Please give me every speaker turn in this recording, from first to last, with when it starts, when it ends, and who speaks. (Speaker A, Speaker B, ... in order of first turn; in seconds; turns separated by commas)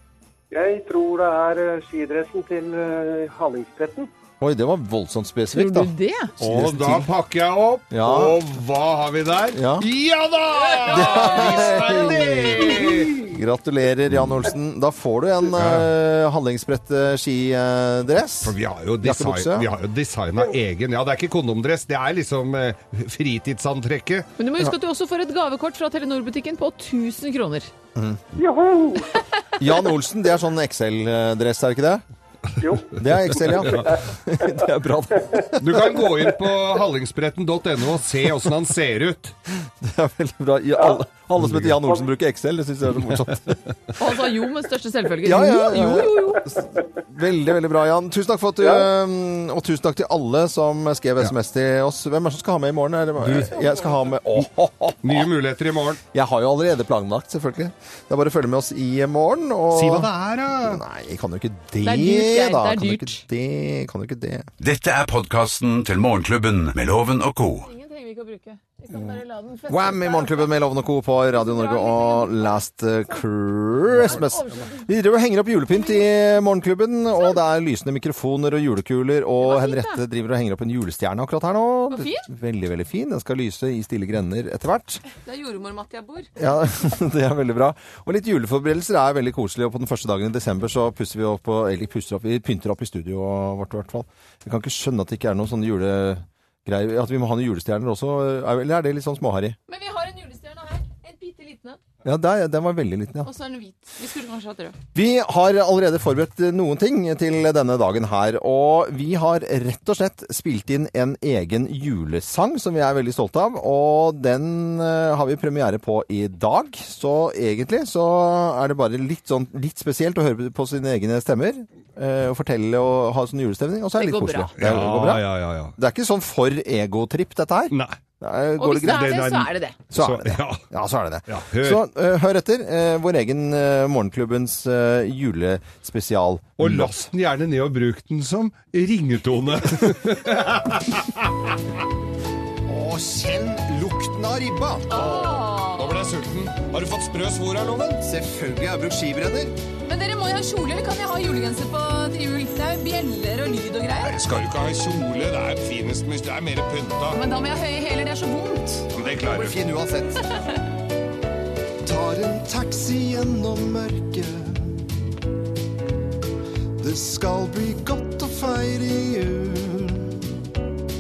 Speaker A: 0.5-4.1, Speaker B: 4.4-7.1, Speaker C: 5.5-6.3, Speaker D: 6.4-13.2, Speaker B: 7.9-8.4, Speaker B: 9.5-9.9, Speaker B: 10.9-19.7, Speaker D: 15.6-15.9, Speaker D: 18.4-24.3, Speaker C: 24.4-27.7, Speaker A: 28.4-29.1, Speaker B: 29.6-32.0, Speaker A: 32.6-33.0, Speaker B: 33.0-36.3, Speaker D: 33.3-33.9, Speaker D: 35.6-39.4, Speaker B: 39.6-43.6, Speaker D: 41.4-41.8, Speaker C: 44.0-46.4, Speaker B: 45.2-55.3, Speaker D: 53.2-53.6, Speaker D: 55.0-56.0, Speaker B: 56.1-64.5, Speaker D: 59.7-60.8, Speaker C: 61.8-63.2, Speaker E: 64.6-67.7, Speaker C: 67.6-70.5, Speaker B: 69.7-85.0, Speaker C: 71.3-72.6, Speaker C: 74.0-74.9, Speaker C: 79.4-80.0, Speaker C: 81.9-82.3, Speaker C: 85.2-86.3, Speaker B: 86.4-99.6, Speaker C: 99.7-101.8, Speaker B: 102.0-103.3, Speaker C: 103.2-104.8, Speaker B: 104.9-125.2, Speaker C: 124.0-124.5, Speaker D: 124.6-125.7, Speaker B: 125.8-129.3, Speaker D: 127.7-128.0, Speaker C: 128.6-129.8, Speaker D: 128.9-130.6, Speaker B: 129.9-136.9, Speaker D: 131.3-131.8, Speaker D: 136.6-141.5, Speaker B: 142.7-145.0, Speaker C: 144.9-146.0, Speaker D: 144.9-148.0, Speaker B: 148.0-149.6, Speaker C: 149.8-154.2, Speaker D: 154.0-157.2, Speaker C: 157.1-158.9, Speaker D: 158.9-159.6, Speaker B: 159.2-160.2, Speaker B: 161.8-164.8, Speaker B: 166.8-170.2